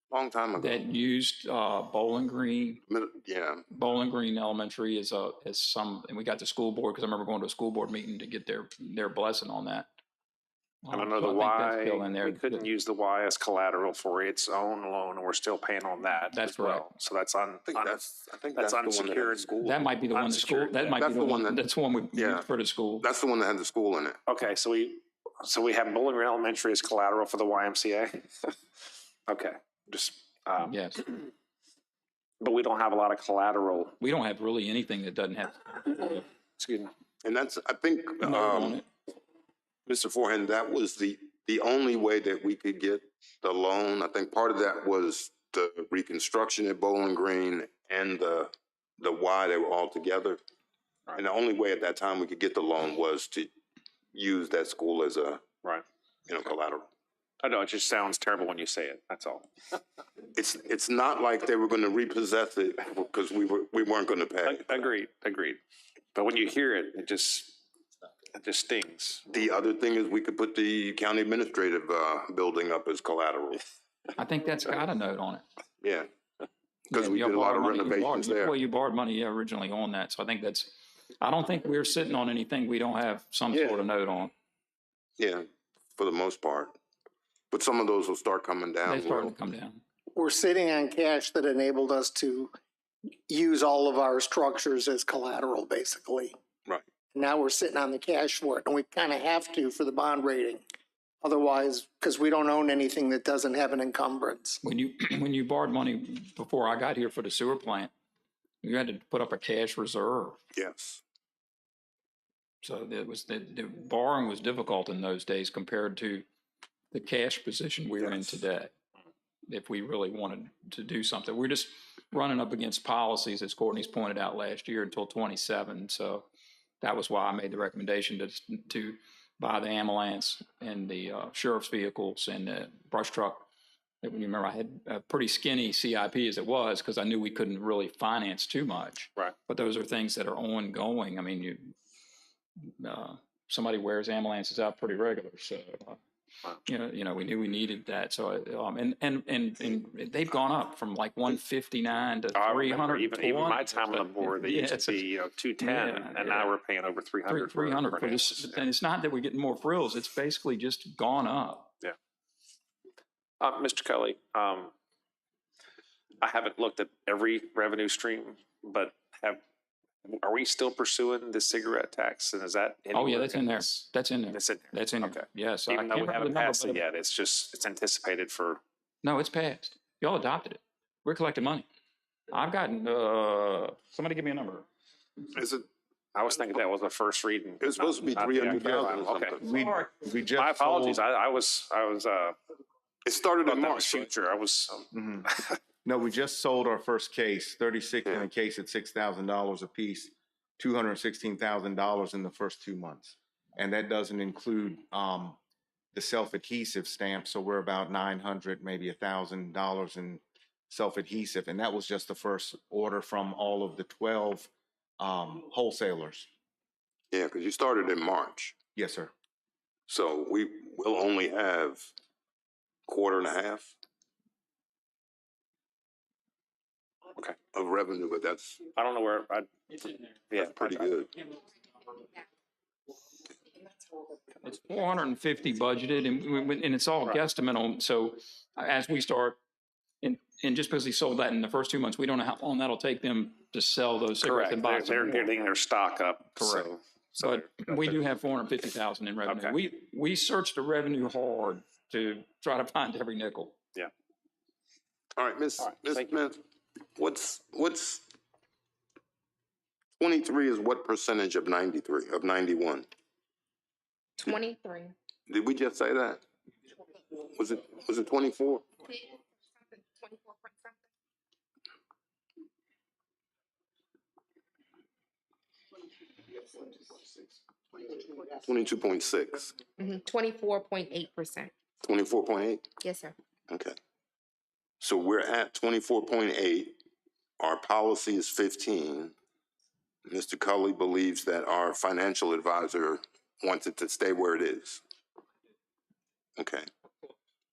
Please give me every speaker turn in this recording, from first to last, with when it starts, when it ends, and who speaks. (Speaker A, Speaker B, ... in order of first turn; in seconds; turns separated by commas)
Speaker A: 0.1-0.8, Speaker B: 0.6-2.8, Speaker A: 2.9-3.6, Speaker B: 3.7-9.9, Speaker B: 10.8-12.6, Speaker C: 10.9-18.0, Speaker B: 16.3-16.9, Speaker A: 17.7-19.7, Speaker C: 18.5-21.0, Speaker B: 19.6-23.1, Speaker A: 21.0-22.5, Speaker A: 23.0-24.2, Speaker C: 24.3-28.5, Speaker C: 29.3-31.3, Speaker B: 30.6-31.0, Speaker C: 32.4-34.0, Speaker B: 34.0-36.2, Speaker C: 36.6-36.9, Speaker A: 37.2-38.8, Speaker B: 38.2-38.9, Speaker A: 39.9-50.4, Speaker A: 51.1-53.5, Speaker A: 54.1-55.4, Speaker A: 56.3-56.9, Speaker C: 57.4-59.5, Speaker A: 60.3-64.9, Speaker C: 64.4-65.6, Speaker C: 66.1-67.6, Speaker C: 68.3-69.2, Speaker A: 69.3-73.6, Speaker B: 74.2-75.4, Speaker A: 75.8-76.1, Speaker A: 76.9-78.5, Speaker B: 76.9-84.3, Speaker A: 85.2-86.7, Speaker A: 87.5-89.3, Speaker B: 88.8-89.8, Speaker D: 90.1-92.5, Speaker D: 93.3-96.3, Speaker D: 97.1-100.6, Speaker D: 101.2-104.6, Speaker B: 104.6-107.9, Speaker B: 108.6-110.4, Speaker A: 110.5-111.0, Speaker B: 112.6-116.2, Speaker B: 116.9-118.7, Speaker B: 119.5-126.3, Speaker B: 126.8-133.5, Speaker B: 134.0-141.7, Speaker B: 142.6-146.0, Speaker B: 146.6-155.1, Speaker C: 152.3-158.6, Speaker B: 155.6-156.5, Speaker B: 157.3-161.7, Speaker C: 163.4-164.7, Speaker C: 166.2-169.4, Speaker C: 170.0-178.6, Speaker B: 172.9-176.8, Speaker B: 179.0-181.7, Speaker B: 182.3-184.7, Speaker A: 185.3-185.7, Speaker C: 186.1-189.5, Speaker A: 187.6-189.4, Speaker E: 188.5-191.0, Speaker C: 190.4-192.3, Speaker A: 193.1-194.1, Speaker C: 193.4-195.6, Speaker E: 194.9-195.3, Speaker E: 195.8-205.4, Speaker E: 205.9-216.3, Speaker A: 217.1-218.5, Speaker E: 218.7-219.1, Speaker A: 219.9-221.9, Speaker A: 222.9-223.7, Speaker A: 227.5-228.6, Speaker C: 228.7-230.9, Speaker A: 230.3-231.1, Speaker B: 234.4-239.4, Speaker B: 240.0-245.3, Speaker C: 244.2-248.0, Speaker B: 246.4-253.6, Speaker C: 249.3-249.6, Speaker A: 255.2-256.4, Speaker C: 255.6-256.1, Speaker A: 257.0-258.1, Speaker A: 260.0-262.9, Speaker F: 264.2-264.9, Speaker A: 265.3-266.2, Speaker A: 267.2-268.7, Speaker F: 268.8-270.8, Speaker A: 278.3-279.6, Speaker F: 279.8-281.5, Speaker A: 281.8-282.7, Speaker F: 282.8-283.1, Speaker A: 283.5-283.8, Speaker A: 284.8-286.8, Speaker A: 287.4-289.1, Speaker A: 290.1-294.8, Speaker A: 296.4-296.7